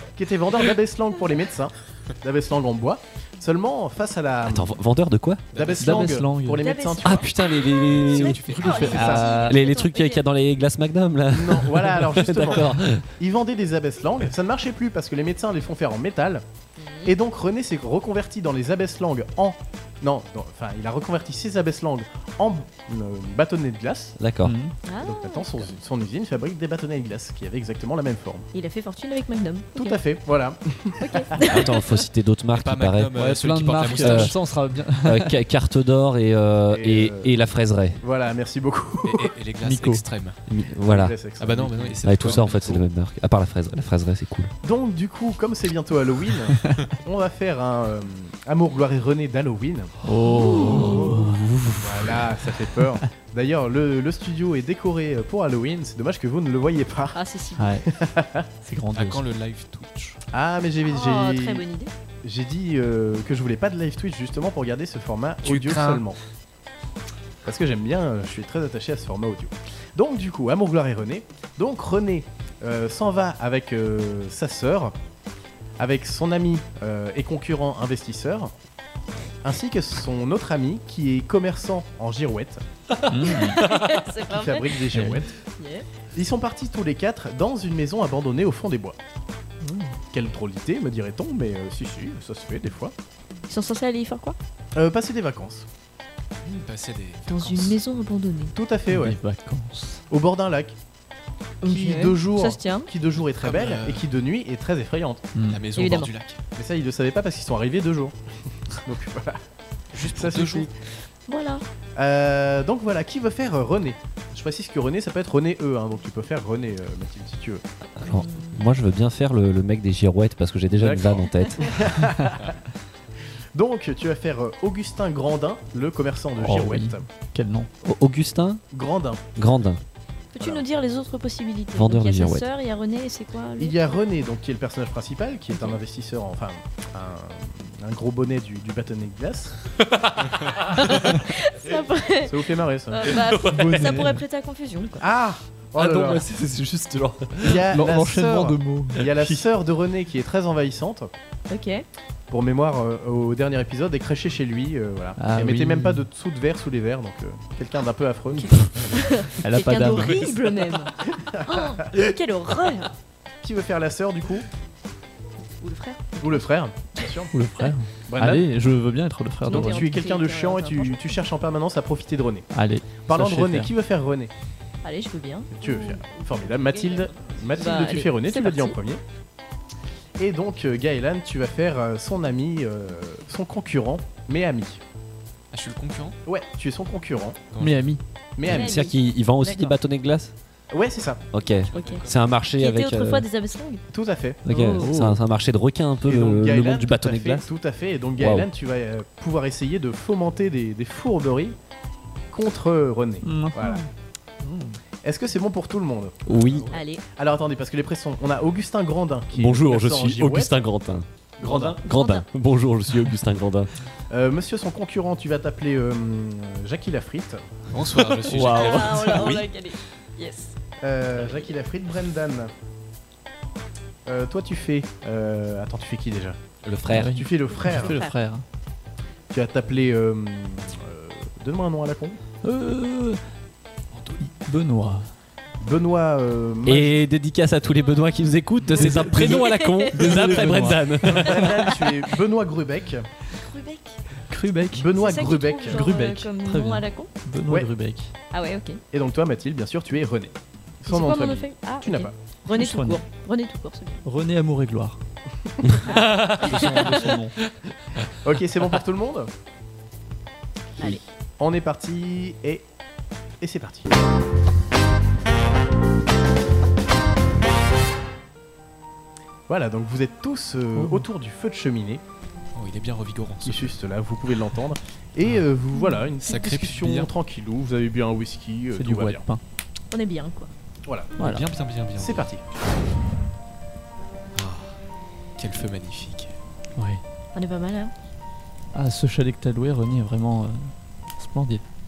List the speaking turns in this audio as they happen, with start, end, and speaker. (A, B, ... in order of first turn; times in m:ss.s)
0:00.2-0:04.8 A
0:04.5-0:05.4 B
0:05.5-0:06.0 C
0:05.6-0:07.3 A
0:05.8-0:06.7 D
0:06.6-0:10.2 E
0:07.0-0:13.0 B
0:08.1-0:09.2 C
0:08.6-0:09.5 D
0:11.3-0:16.4 A
0:16.8-0:17.1 E
0:17.0-0:24.1 A
0:24.2-0:24.6 B
0:24.4-0:24.7 D
0:24.9-0:25.7 E
0:25.0-0:28.5 A
0:28.5-0:30.0 E
0:29.7-0:31.6 A
0:31.0-0:32.0 E
0:31.4-0:33.1 B
0:32.5-0:34.4 C
0:33.1-0:35.3 D
0:33.8-0:34.3 B
0:35.0-0:38.0 B
0:36.7-0:37.3 A
0:38.0-0:39.3 A
0:39.0-0:40.4 C
0:39.6-0:40.0 D
0:40.5-0:41.2 B
0:40.8-0:42.5 A
0:41.4-0:42.8 C
0:42.0-0:44.5 B
0:44.6-0:49.9 A
0:50.0-0:51.9 D
0:50.3-0:51.2 E
0:50.8-0:51.0 A
0:51.8-0:57.2 A
0:57.1-0:57.8 E
0:57.6-0:57.8 D
0:57.9-0:58.5 A
0:58.6-0:59.2 D
0:58.9-1:00.2 C
1:00.3-1:01.6 A
1:00.9-1:01.9 E
1:02.2-1:06.2 A
1:05.4-1:06.0 C
1:07.4-1:14.9 A
1:15.8-1:18.5 A
1:19.4-1:22.6 A
1:23.1-1:23.6 D
1:23.2-1:24.8 E
1:23.6-1:24.0 B
1:24.2-1:25.3 A
1:24.9-1:25.2 D
1:25.6-1:25.8 E
1:26.1-1:29.0 A
1:29.6-1:29.9 D
1:30.1-1:32.9 A
1:33.5-1:34.4 E
1:34.7-1:35.6 A
1:36.4-1:37.8 C
1:37.3-1:38.5 E
1:38.5-1:39.2 A
1:38.9-1:40.0 D
1:40.1-1:40.8 A
1:41.6-1:42.9 E
1:41.7-1:45.3 A
1:43.4-1:44.0 C
1:45.3-1:45.6 D
1:45.4-1:46.4 C
1:45.8-1:46.1 E
1:46.6-1:48.2 A
1:48.8-1:49.4 A
1:49.9-1:50.7 C
1:49.9-1:50.7 A
1:51.3-1:51.6 E
1:52.0-1:57.6 A
1:58.0-2:01.7 B
1:58.1-1:58.6 E
2:00.8-2:02.5 A
2:03.5-2:07.0 A
2:06.4-2:07.7 D
2:07.8-2:08.6 B
2:08.7-2:09.2 A
2:09.4-2:09.8 B
2:10.3-2:13.8 E
2:11.8-2:12.5 B
2:13.6-2:19.6 A
2:15.5-2:15.8 E
2:19.8-2:20.9 B
2:20.8-2:25.0 E
2:22.2-2:23.2 A
2:23.1-2:24.1 B
2:23.5-2:24.2 D
2:25.0-2:26.2 A
2:25.7-2:27.7 B
2:27.4-2:31.1 A
2:27.7-2:29.4 D
2:31.5-2:31.8 E
2:32.3-2:38.9 A
2:35.2-2:36.0 D
2:38.4-2:42.9 E
2:39.4-2:40.3 D
2:41.3-2:41.6 A
2:43.4-2:44.5 A
2:45.6-2:46.4 E
2:46.2-2:47.3 A
2:47.3-2:49.9 D
2:48.1-2:48.5 A
2:49.4-2:51.2 E
2:49.5-2:52.5 A
2:52.5-2:53.7 D
2:53.1-2:54.3 A
2:54.8-2:58.8 E
2:55.5-2:59.0 A
3:00.2-3:04.8 A
3:05.5-3:06.2 C
3:06.2-3:07.4 A
3:07.5-3:07.9 C
3:07.6-3:08.0 D
3:08.4-3:08.8 A
3:08.4-3:09.7 E
3:08.4-3:10.3 B
3:10.7-3:11.2 A
3:11.3-3:13.2 B
3:11.7-3:12.4 C
3:11.7-3:13.8 E
3:13.9-3:15.0 A
3:14.4-3:17.5 B
3:14.5-3:14.9 E
3:14.6-3:15.1 D
3:16.0-3:21.6 A
3:18.2-3:18.5 B
3:22.3-3:23.8 A
3:23.2-3:23.9 D
3:24.4-3:24.7 D
3:25.0-3:26.6 A
3:26.3-3:26.7 B
3:26.4-3:26.8 C
3:26.7-3:27.0 E
3:27.2-3:30.6 A
3:29.3-3:33.7 B
3:31.4-3:31.8 A
3:31.8-3:32.2 E
3:34.1-3:37.4 A
3:37.7-3:39.4 C
3:38.3-3:39.4 B
3:38.3-3:40.5 E
3:40.8-3:42.5 A
3:44.0-3:46.4 A
3:46.6-3:47.2 B
3:46.9-3:48.4 D
3:47.1-3:48.0 A
3:47.6-3:48.2 E
3:49.3-3:52.2 A
3:52.4-3:53.2 D
3:53.9-3:54.3 C
3:54.2-3:55.1 D
3:55.6-3:56.9 A
3:56.6-4:01.7 B
3:58.6-4:01.4 D
3:59.2-4:00.1 E
4:01.0-4:03.0 A
4:03.3-4:04.0 E
4:04.3-4:04.9 D
4:04.7-4:05.9 A
4:04.9-4:07.1 E
4:05.7-4:08.1 D
4:08.3-4:08.8 E
4:08.9-4:12.1 A
4:10.9-4:14.0 E
4:12.5-4:13.0 D
4:14.0-4:15.0 D
4:15.6-4:16.7 B
4:15.9-4:17.1 E
4:16.4-4:17.3 D
4:18.2-4:19.3 A
4:20.8-4:22.6 A
4:23.4-4:23.9 A
4:29.5-4:32.0 A
4:30.7-4:31.1 D
4:32.6-4:33.8 C
4:33.4-4:39.2 A
4:36.2-4:37.1 C
4:38.7-4:39.4 D
4:39.9-4:40.5 E
4:40.9-4:41.2 A
4:41.2-4:41.4 D
4:41.2-4:42.3 C
4:42.0-4:42.4 A
4:44.3-4:44.8 C
4:45.4-4:46.3 C
4:47.3-4:47.9 E
4:48.7-4:51.6 D